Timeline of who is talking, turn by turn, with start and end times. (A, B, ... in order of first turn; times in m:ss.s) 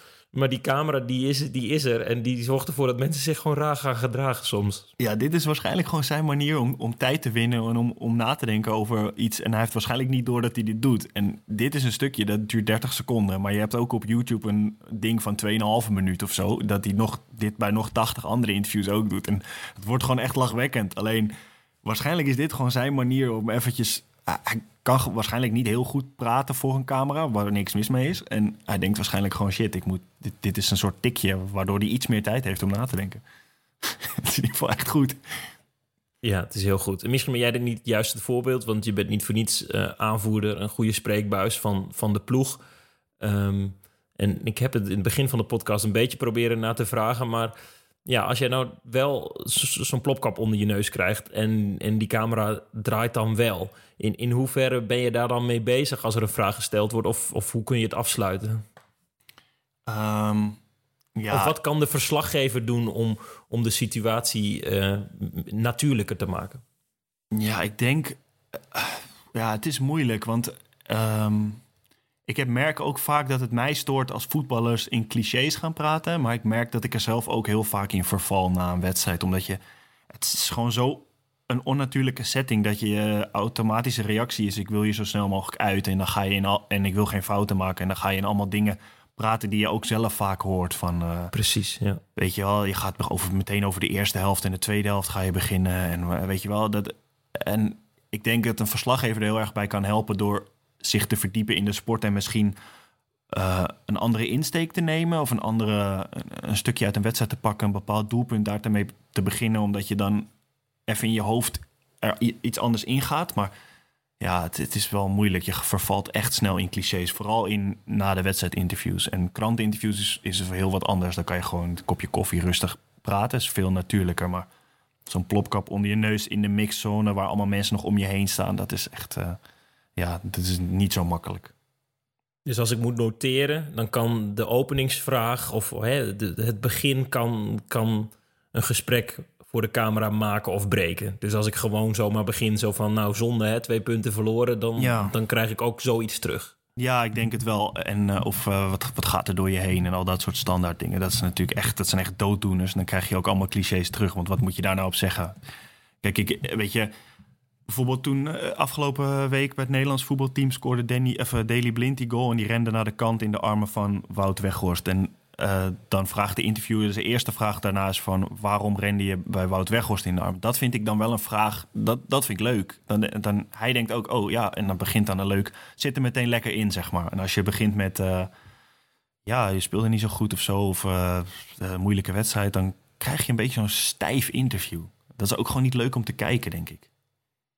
0:00.3-0:04.9 A
0:05.0-0:21.3 B
0:21.8-0:33.2 B
0:33.8-0:35.2 B
0:36.2-0:42.6 A
0:43.2-0:47.5 A
0:48.0-0:58.6 A
0:59.9-1:00.6 B
1:01.2-1:01.5 B
1:01.3-1:06.6 A
1:07.3-1:11.6 B
1:12.3-1:31.3 B
1:31.3-1:32.0 A
1:32.2-1:42.6 B
1:43.3-1:50.3 B
1:50.9-1:53.5 B
1:54.2-2:04.5 B
2:05.0-2:09.4 B
2:10.0-2:11.5 B
2:12.4-2:26.5 A
2:24.8-2:25.1 B
2:26.8-2:35.4 B
2:36.0-2:36.9 B
2:37.7-2:58.3 B
2:59.2-3:06.9 B